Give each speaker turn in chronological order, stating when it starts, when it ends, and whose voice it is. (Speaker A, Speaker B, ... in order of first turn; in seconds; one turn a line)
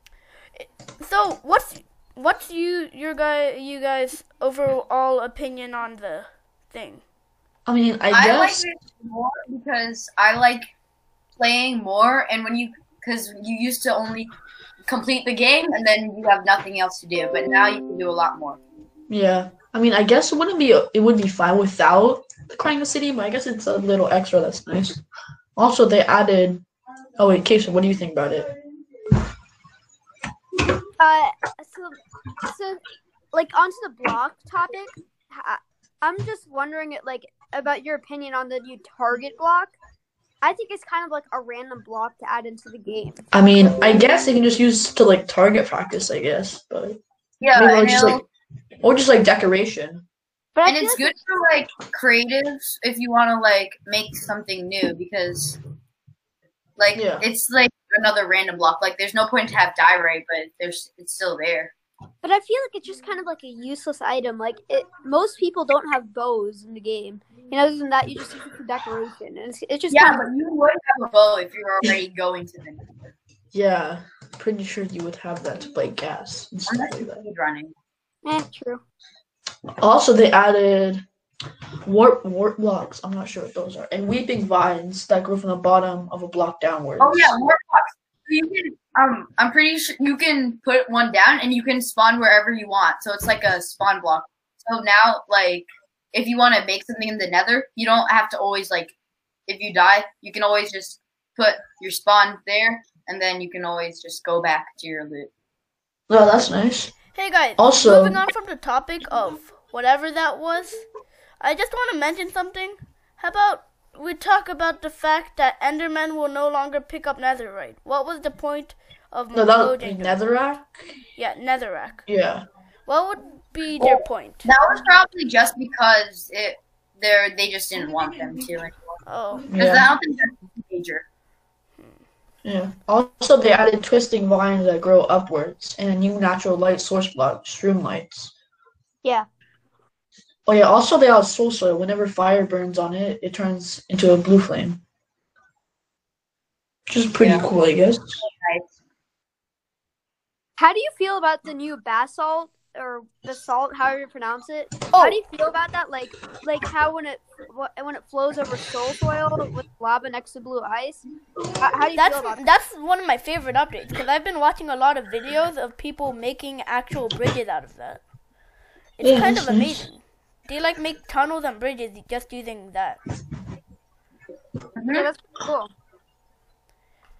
Speaker A: 0.6-7.0
Speaker B: 7.7-8.6
Speaker C: 8.1-10.7
Speaker C: 11.4-14.3
Speaker C: 14.8-18.6
Speaker B: 19.1-25.0
Speaker B: 25.6-26.6
Speaker B: 27.2-28.5
Speaker D: 31.0-32.8
Speaker D: 33.3-39.8
Speaker D: 40.4-43.2
Speaker B: 43.3-47.0
Speaker C: 47.4-48.2
Speaker B: 47.5-48.2
Speaker B: 48.8-50.0
Speaker D: 50.5-51.1
Speaker C: 50.6-55.6
Speaker C: 56.8-61.7
Speaker B: 56.9-57.2
Speaker D: 62.2-70.2
Speaker C: 69.9-73.1
Speaker B: 73.5-77.2
Speaker C: 76.7-77.7
Speaker D: 78.2-78.8
Speaker B: 79.8-81.0
Speaker B: 81.8-87.3
Speaker C: 87.0-98.9
Speaker C: 99.5-105.3
Speaker B: 106.1-107.0
Speaker A: 107.1-110.8
Speaker B: 107.6-108.2
Speaker A: 111.4-120.2
Speaker B: 119.3-120.7
Speaker A: 121.2-122.0
Speaker B: 122.1-122.4
Speaker A: 122.9-124.4
Speaker C: 124.4-128.8
Speaker A: 129.1-129.5
Speaker B: 129.5-129.9
Speaker C: 129.5-131.0
Speaker B: 132.4-138.3
Speaker B: 140.4-144.8
Speaker B: 146.9-148.2
Speaker C: 147.2-147.5
Speaker C: 148.2-148.7
Speaker D: 150.6-161.0
Speaker D: 161.6-162.5
Speaker A: 161.9-168.0
Speaker A: 169.0-173.0
Speaker B: 169.0-169.9
Speaker C: 174.8-175.1
Speaker D: 174.9-175.7